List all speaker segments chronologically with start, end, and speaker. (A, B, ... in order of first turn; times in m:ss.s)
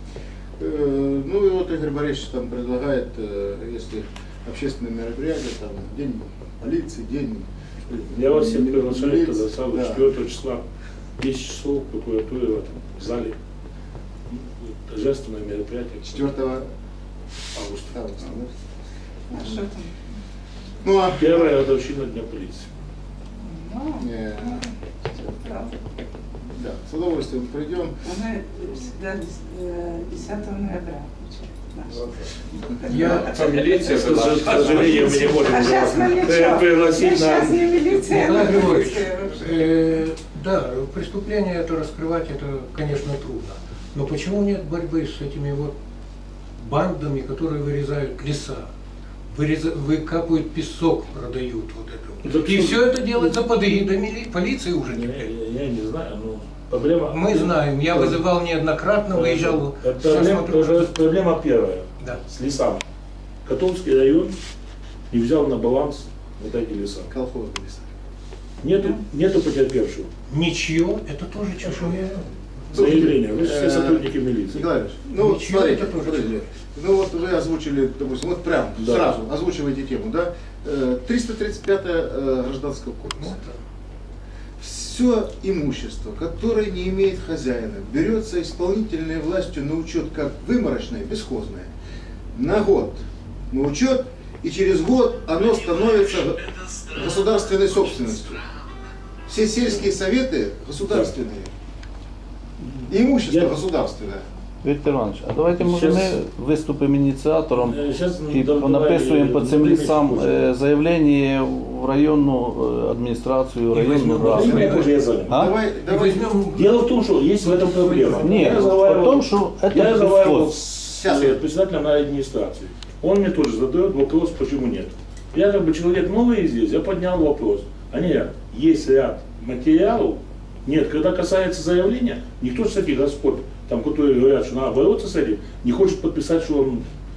0:00.6-0:07.5 A
0:07.9-0:10.6 B
0:08.0-0:10.1 A
0:11.2-0:13.4 B
0:14.3-0:16.3 B
0:16.1-0:16.6 A
0:17.5-0:17.9 B
0:17.9-0:18.5 A
0:19.3-0:19.7 A
0:20.8-0:21.3 A
0:21.1-0:22.7 B
0:23.5-0:23.9 C
0:24.0-0:24.7 A
0:25.2-0:25.7 C
0:26.5-0:28.1 A
0:28.1-0:31.8 C
0:32.9-0:34.4 D
0:33.1-0:38.1 B
0:34.9-0:36.1 D
0:35.5-0:36.4 C
0:37.3-0:39.3 C
0:37.9-0:45.7 D
0:46.6-0:48.7 D
0:49.3-0:55.3 D
0:52.2-0:53.4 B
0:54.8-0:58.2 B
0:57.1-1:00.9 D
0:59.1-1:02.8 B
1:03.4-1:04.3 B
1:05.1-1:07.1 B
1:07.1-1:07.9 A
1:08.6-1:10.1 B
1:10.3-1:13.1 D
1:12.7-1:23.4 A
1:12.7-1:14.6 B
1:15.2-1:16.4 D
1:18.8-1:19.1 B
1:23.2-1:23.6 D
1:24.6-1:31.7 A
1:32.3-1:38.4 A
1:39.2-1:41.5 A
1:42.8-1:44.2 A
1:43.2-1:43.6 B
1:44.6-1:54.7 E
1:45.6-1:46.2 B
1:47.6-1:50.4 B
1:53.7-1:54.9 D
1:54.2-1:55.4 B
1:54.3-1:56.2 A
1:55.3-1:55.5 E
1:55.8-1:58.7 D
1:56.5-2:16.8 B
1:58.2-2:00.5 E
2:00.9-2:01.4 A